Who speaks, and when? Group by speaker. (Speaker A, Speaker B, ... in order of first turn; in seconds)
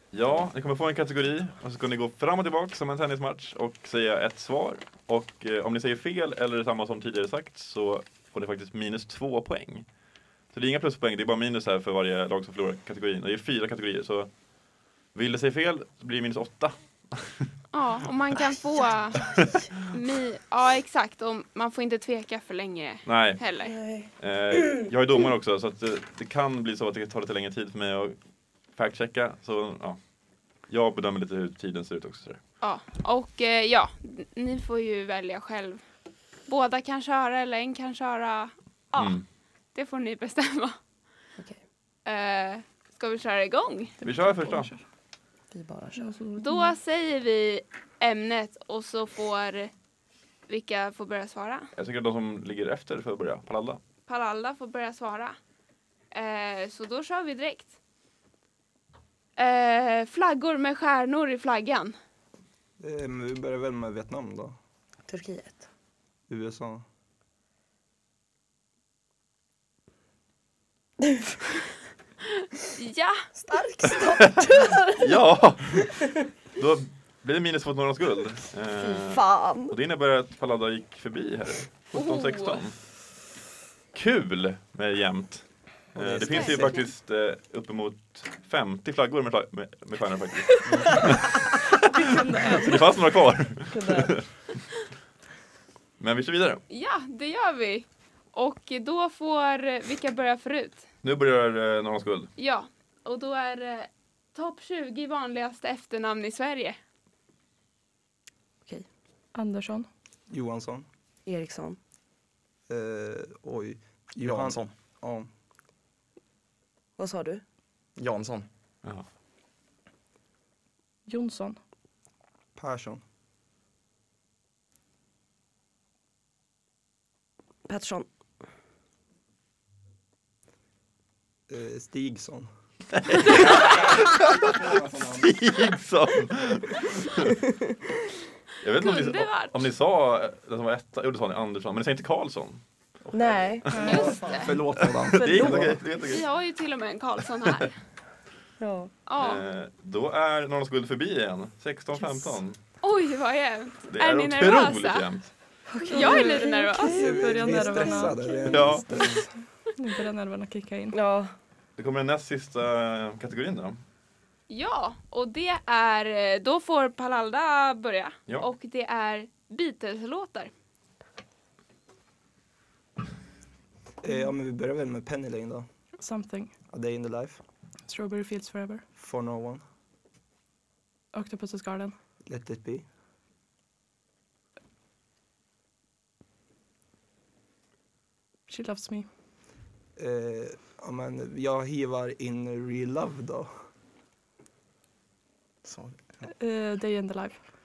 Speaker A: 0.1-9.8, 10.5-14.3, 15.1-17.5, 23.1-23.4, 24.2-28.2, 28.7-30.0, 30.7-32.4, 39.0-39.2, 44.0-44.7, 51.8-53.8, 74.2-74.4, 75.0-76.0, 76.5-82.8, 83.9-94.2, 96.0-96.6, 101.0-102.3, 132.9-134.6, 135.2-137.4, 138.6-142.6, 143.6-144.0, 144.8-146.2, 147.4-147.7, 149.2-152.6, 153.9-155.3, 158.5-159.1, 161.8-163.8
Speaker B: 17.7-23.8, 32.6-35.8, 36.5-39.2, 39.7-40.8, 42.0-44.0, 46.4-49.7, 50.5-51.7, 54.1-55.4, 56.1-57.7, 59.4-61.9, 72.8-73.2, 81.9-82.6, 86.2-86.9, 96.7-100.8, 102.4-106.8, 138.8-139.7, 143.8-144.6, 146.0-147.7, 149.1-149.4, 152.8-155.1, 155.9-157.0, 164.5-170.5
Speaker C: 23.6-24.9, 45.5-46.1, 65.1-65.7, 73.3-75.2, 78.8-79.8, 93.7-94.2, 111.2-111.8, 117.0-117.4, 127.7-128.1, 143.1-144.0, 145.2-145.7, 148.6-148.9, 155.7-158.7, 160.9-161.3
Speaker D: 44.0-44.8, 46.0-46.8, 91.9-93.0, 109.3-109.9, 121.0-121.6, 143.7-144.2, 155.9-158.6, 159.8-160.9, 176.0-176.5, 177.9-178.8, 181.1-181.9, 188.5-189.1, 196.3-197.4
Speaker E: 62.8-64.5, 66.3-66.8, 110.3-110.8, 112.7-115.3, 122.5-123.0, 131.5-132.5, 133.2-135.3, 143.1-145.8, 156.9-159.3, 174.0-175.7, 176.7-177.4, 178.9-179.6, 182.2-182.8, 190.0-193.5
Speaker F: 86.0-86.8, 90.7-91.0, 114.2-114.7, 118.0-118.5, 143.8-144.5, 195.6-196.2